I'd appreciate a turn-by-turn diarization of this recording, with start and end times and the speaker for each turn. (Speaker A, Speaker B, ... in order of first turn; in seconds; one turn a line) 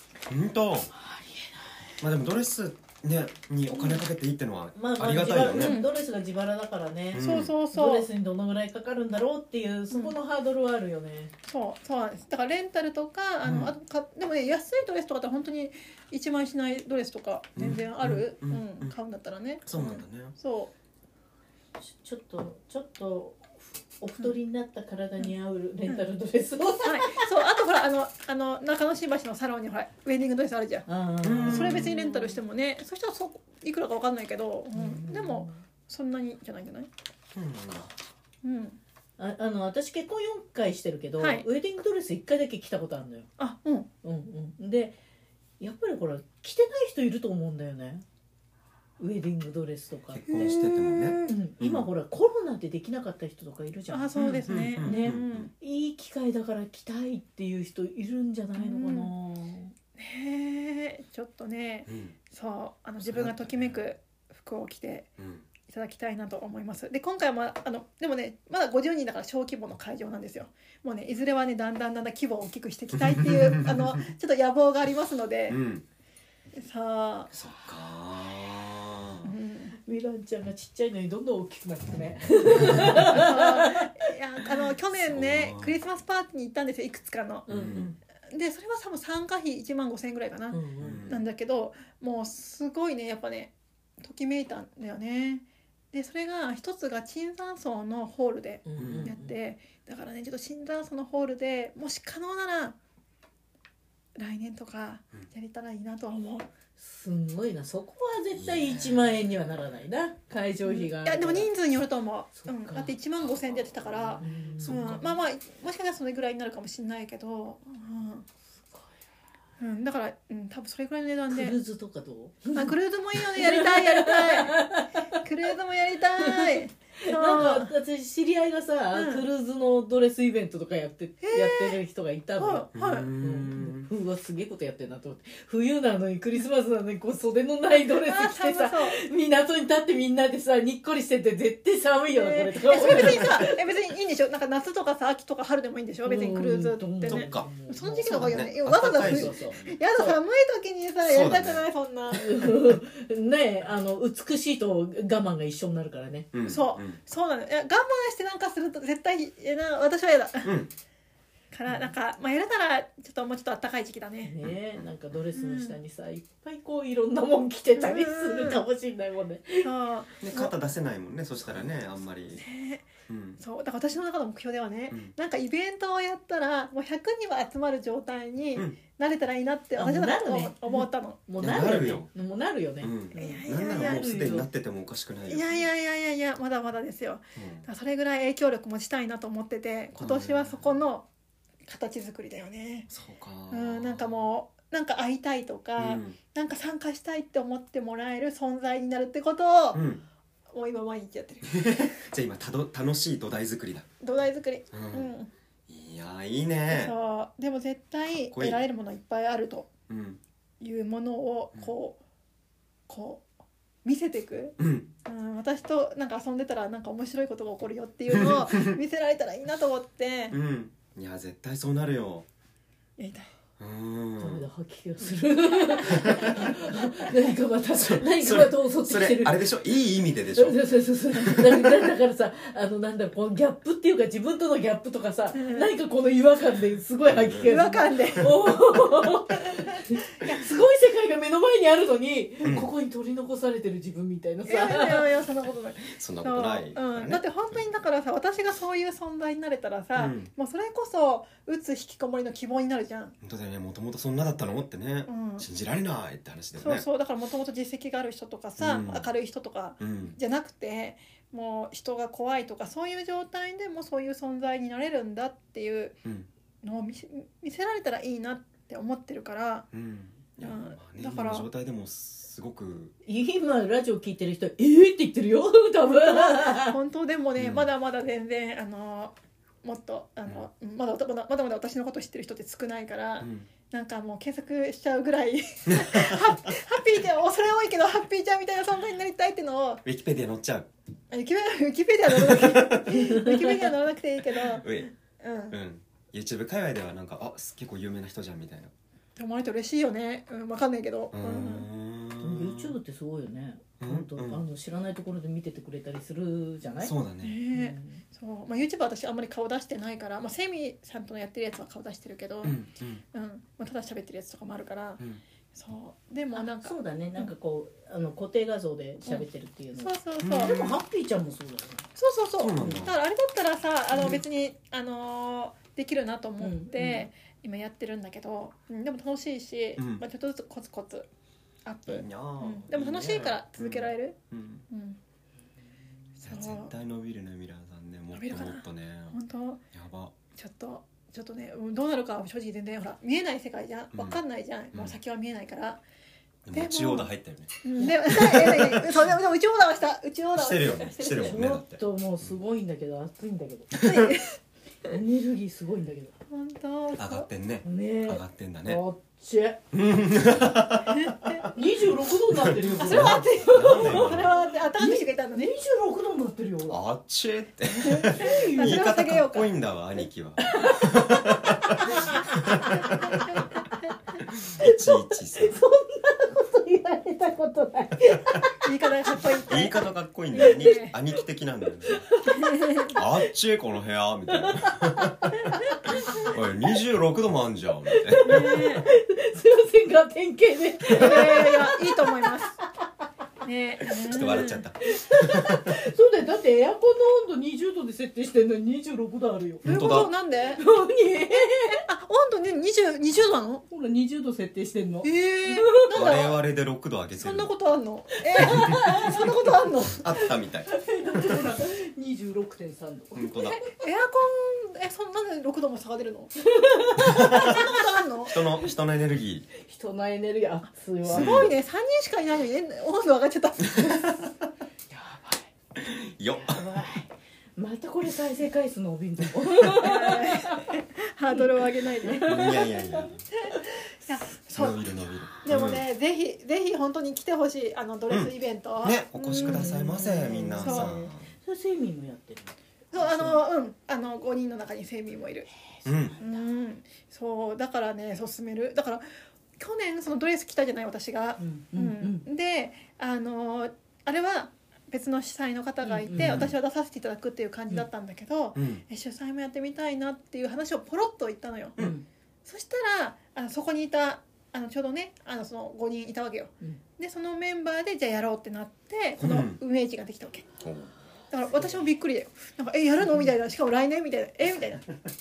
Speaker A: 0.3-0.9
Speaker B: 0.9-1.9
Speaker A: 2.0-5.8
Speaker B: 4.7-11.3
Speaker C: 5.5-5.9
Speaker A: 7.1-7.5
Speaker C: 7.2-8.1
Speaker C: 9.9-10.2
Speaker C: 11.5-20.7
Speaker A: 13.4-13.7
Speaker A: 17.6-18.9
Speaker A: 19.6-20.3
Speaker B: 21.8-27.3
Speaker C: 26.8-30.9
Speaker B: 30.9-32.4
Speaker A: 31.2-31.9
Speaker C: 31.5-36.9
Speaker B: 34.7-35.6
Speaker A: 37.3-37.9
Speaker C: 38.4-38.8
Speaker B: 39.2-43.3
Speaker C: 41.2-41.4
Speaker C: 43.4-43.9
Speaker B: 44.0-45.0
Speaker B: 45.6-48.0
Speaker B: 49.0-50.5
Speaker A: 50.1-51.9
Speaker C: 50.3-51.3
Speaker B: 51.2-54.3
Speaker C: 53.9-55.5
Speaker A: 54.1-55.5
Speaker B: 54.8-59.7
Speaker C: 58.6-59.1
Speaker C: 60.0-65.1
Speaker A: 61.9-62.1
Speaker A: 63.0-63.8
Speaker A: 65.2-65.5
Speaker C: 65.7-75.6
Speaker A: 72.9-74.0
Speaker A: 75.5-75.8
Speaker C: 76.5-77.3
Speaker A: 77.3-79.3
Speaker C: 79.2-79.7
Speaker B: 79.8-84.5
Speaker A: 82.6-82.9
Speaker C: 82.6-87.5
Speaker A: 84.9-85.8
Speaker B: 87.5-88.0
Speaker A: 87.5-87.9
Speaker C: 88.3-102.8
Speaker B: 90.5-91.1
Speaker A: 90.8-91.2
Speaker B: 98.6-99.3
Speaker A: 98.8-99.1
Speaker C: 104.2-106.5
Speaker B: 106.8-111.5
Speaker A: 108.4-109.2
Speaker C: 110.6-118.2
Speaker B: 112.4-112.9
Speaker A: 113.2-115.1
Speaker B: 114.2-115.0
Speaker B: 118.5-118.9
Speaker C: 119.6-121.6
Speaker B: 121.3-125.2
Speaker C: 122.5-127.7
Speaker B: 126.2-143.6
Speaker C: 128.9-129.2
Speaker C: 131.2-131.8
Speaker C: 132.4-133.1
Speaker A: 132.7-133.9
Speaker C: 137.9-139.0
Speaker C: 142.1-152.5
Speaker B: 146.0-150.2
Speaker A: 147.1-147.5
Speaker A: 148.0-149.6
Speaker A: 151.0-151.7
Speaker B: 152.1-156.3
Speaker A: 156.3-157.0
Speaker C: 156.4-160.6
Speaker A: 160.4-160.7
Speaker C: 161.5-164.3
Speaker B: 164.2-169.7
Speaker A: 164.4-164.8
Speaker C: 165.3-165.8
Speaker C: 167.8-168.6
Speaker C: 169.6-170.5
Speaker A: 170.2-172.4
Speaker C: 172.4-172.8
Speaker A: 173.1-173.4
Speaker C: 173.4-181.2
Speaker B: 179.8-184.5
Speaker A: 181.4-182.1
Speaker A: 182.8-185.6
Speaker C: 183.2-184.1
Speaker C: 185.3-191.1
Speaker A: 187.3-187.7
Speaker A: 189.9-190.8
Speaker C: 191.7-192.9
Speaker A: 192.9-194.3
Speaker C: 193.5-199.8
Speaker A: 195.8-196.2
Speaker A: 199.7-200.0
Speaker C: 200.5-201.7
Speaker A: 201.4-203.9
Speaker C: 204.0-205.3
Speaker A: 204.7-205.1
Speaker A: 205.7-206.9
Speaker C: 206.7-209.7
Speaker A: 208.2-208.6
Speaker A: 209.9-210.2
Speaker C: 210.6-212.0
Speaker C: 212.9-213.2
Speaker C: 213.8-220.3
Speaker A: 214.6-214.9
Speaker A: 218.1-218.8
Speaker A: 220.3-222.3
Speaker C: 223.0-223.3
Speaker A: 223.6-224.4
Speaker B: 224.2-229.5
Speaker A: 225.8-226.5
Speaker A: 227.8-231.9
Speaker B: 230.3-245.1
Speaker C: 235.3-235.7
Speaker A: 237.1-237.5
Speaker C: 237.4-238.3
Speaker A: 242.4-242.7
Speaker C: 244.5-253.1
Speaker A: 245.8-247.6
Speaker A: 249.9-250.3
Speaker A: 253.2-256.8
Speaker C: 255.1-255.5
Speaker C: 256.6-266.0
Speaker A: 258.6-259.1
Speaker A: 259.8-260.2
Speaker C: 266.6-269.7
Speaker A: 269.7-272.9
Speaker C: 270.4-271.5
Speaker B: 273.1-276.8
Speaker C: 275.9-289.8
Speaker A: 277.4-277.7
Speaker A: 283.2-283.5
Speaker A: 285.7-286.3
Speaker A: 289.8-290.7
Speaker C: 291.1-294.7
Speaker A: 292.1-292.9
Speaker B: 292.9-293.7
Speaker A: 294.4-294.9
Speaker C: 295.2-295.6
Speaker A: 295.5-298.7
Speaker C: 299.2-301.7
Speaker A: 301.1-302.8
Speaker B: 302.2-306.9
Speaker A: 303.8-304.4
Speaker A: 306.8-307.4
Speaker C: 307.2-312.6
Speaker B: 307.5-308.0
Speaker A: 312.4-313.0
Speaker C: 313.1-315.0
Speaker C: 315.5-317.3
Speaker B: 316.3-321.9
Speaker C: 319.8-320.6
Speaker A: 320.2-320.8
Speaker C: 322.0-331.1
Speaker A: 322.4-323.0
Speaker B: 322.6-322.8
Speaker B: 326.4-327.1
Speaker A: 329.8-330.0
Speaker C: 331.6-334.1
Speaker A: 331.9-334.6
Speaker C: 334.7-335.0
Speaker C: 336.2-336.7
Speaker A: 336.2-339.2
Speaker C: 338.1-339.6
Speaker A: 339.7-340.1
Speaker C: 340.3-345.8
Speaker A: 343.9-344.2
Speaker A: 346.4-349.1
Speaker C: 346.5-347.1
Speaker C: 347.6-351.4
Speaker A: 350.4-352.3
Speaker B: 351.1-353.8
Speaker A: 353.7-354.1
Speaker C: 353.7-354.4
Speaker B: 354.9-356.1
Speaker C: 356.3-357.3
Speaker A: 357.0-358.8
Speaker B: 357.6-359.6
Speaker A: 359.7-361.5
Speaker C: 360.9-361.5
Speaker B: 361.5-366.8
Speaker A: 362.3-364.3
Speaker C: 362.8-365.5
Speaker A: 366.7-373.4
Speaker C: 367.8-369.5
Speaker B: 368.1-368.9
Speaker B: 370.4-371.0
Speaker B: 371.7-373.2
Speaker C: 372.8-373.5
Speaker A: 374.3-375.6
Speaker B: 374.6-378.6
Speaker C: 378.6-380.9
Speaker A: 379.5-382.1
Speaker B: 380.4-380.7
Speaker B: 381.9-383.0
Speaker C: 382.3-382.9
Speaker A: 382.9-388.6
Speaker B: 384.3-386.3
Speaker B: 387.9-392.9
Speaker C: 388.2-388.9
Speaker C: 390.9-392.6
Speaker C: 393.4-394.6
Speaker A: 394.0-395.7
Speaker B: 394.8-400.0
Speaker A: 399.6-400.1
Speaker C: 399.6-400.6
Speaker B: 400.6-401.8
Speaker C: 401.3-403.6
Speaker B: 403.7-405.9
Speaker C: 405.0-406.4
Speaker A: 405.9-407.5
Speaker C: 407.2-410.0
Speaker B: 408.3-409.5
Speaker A: 408.4-409.3
Speaker A: 409.9-411.5
Speaker B: 410.1-413.7
Speaker A: 413.1-413.6
Speaker C: 413.7-416.3
Speaker B: 416.4-417.6
Speaker A: 417.0-417.7
Speaker C: 417.2-418.4
Speaker A: 418.2-419.5
Speaker B: 419.5-421.5
Speaker C: 421.1-424.3
Speaker A: 421.1-421.5
Speaker B: 424.9-425.5
Speaker A: 425.8-426.6
Speaker B: 426.4-430.7
Speaker C: 429.7-432.7
Speaker B: 431.3-433.6
Speaker A: 432.2-433.2
Speaker C: 433.4-434.8
Speaker A: 434.5-435.8
Speaker C: 435.4-439.7
Speaker A: 438.1-441.3
Speaker B: 439.3-443.4
Speaker C: 440.6-441.0
Speaker C: 442.9-445.5
Speaker B: 445.8-446.4
Speaker A: 445.8-446.2
Speaker C: 446.2-449.0
Speaker C: 449.6-461.8
Speaker B: 451.4-452.2
Speaker B: 455.8-456.5
Speaker A: 456.1-456.5
Speaker A: 458.5-458.8
Speaker B: 461.8-462.0
Speaker C: 462.4-470.5
Speaker A: 469.2-469.6
Speaker A: 470.6-470.9
Speaker C: 471.3-474.9
Speaker B: 473.0-473.3